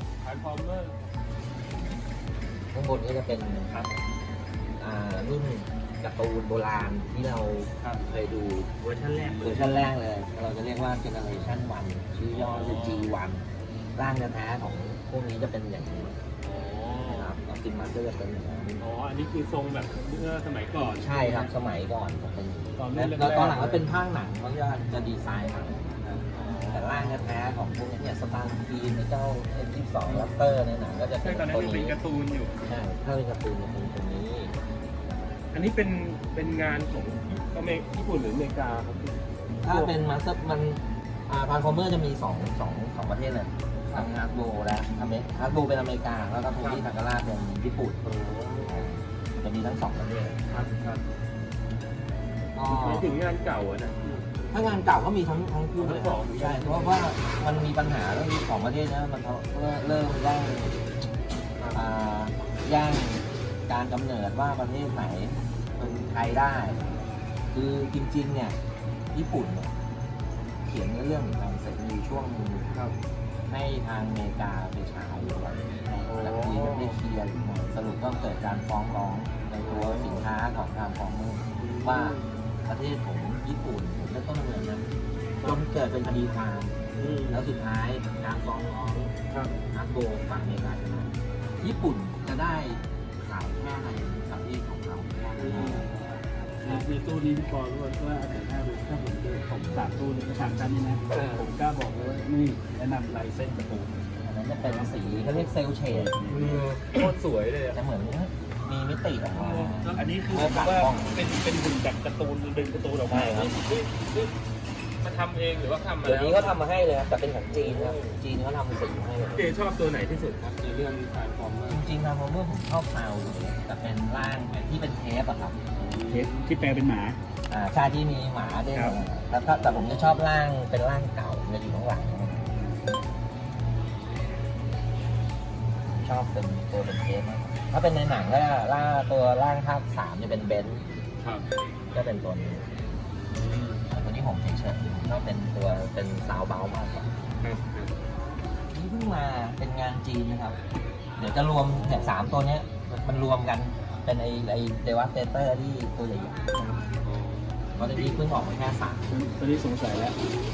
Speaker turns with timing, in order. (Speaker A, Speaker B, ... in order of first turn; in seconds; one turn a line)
Speaker A: 0.2-1.0
Speaker B: 2.7-3.8
Speaker B: 4.8-8.8
Speaker A: 7.8-8.1
Speaker A: 8.8-9.9
Speaker B: 9.3-16.2
Speaker A: 12.3-13.1
Speaker A: 16.4-17.4
Speaker B: 17.0-18.8
Speaker A: 18.8-21.5
Speaker B: 20.8-32.0
Speaker A: 22.8-23.9
Speaker A: 26.3-27.3
Speaker A: 30.1-30.3
Speaker A: 31.2-32.5
Speaker B: 32.6-34.5
Speaker A: 35.5-39.9
Speaker B: 39.6-48.0
Speaker A: 46.6-46.8
Speaker A: 48.0-48.9
Speaker B: 48.6-50.4
Speaker A: 50.5-51.0
Speaker B: 52.5-53.1
Speaker A: 52.6-54.2
Speaker B: 54.5-60.8
Speaker A: 55.8-57.1
Speaker A: 61.6-61.9
Speaker B: 61.7-66.9
Speaker A: 65.8-66.4
Speaker B: 67.5-68.6
Speaker B: 69.1-69.8
Speaker B: 70.6-72.7
Speaker B: 73.5-84.8
Speaker A: 76.0-77.0
Speaker A: 79.6-80.3
Speaker A: 81.6-82.3
Speaker B: 85.4-89.1
Speaker A: 87.0-87.5
Speaker A: 89.3-89.5
Speaker B: 89.7-95.9
Speaker A: 95.4-95.9
Speaker C: 95.6-104.0
Speaker A: 101.1-101.5
Speaker B: 104.2-106.2
Speaker C: 104.6-105.3
Speaker C: 105.9-106.7
Speaker A: 106.3-107.8
Speaker B: 107.7-111.2
Speaker A: 109.3-114.3
Speaker B: 113.1-113.6
Speaker A: 115.0-116.6
Speaker B: 116.0-119.5
Speaker A: 117.5-118.2
Speaker A: 119.3-121.9
Speaker B: 121.7-125.6
Speaker A: 125.8-126.4
Speaker C: 125.8-127.2
Speaker B: 127.5-132.6
Speaker A: 128.7-129.0
Speaker A: 129.7-130.1
Speaker B: 135.8-140.8
Speaker A: 141.2-141.4
Speaker B: 141.9-142.6
Speaker A: 143.3-143.8
Speaker B: 143.9-147.1
Speaker A: 147.4-147.9
Speaker B: 148.7-150.6
Speaker B: 151.2-156.7
Speaker A: 151.6-152.3
Speaker A: 157.0-158.0
Speaker B: 157.7-159.1
Speaker C: 159.1-160.2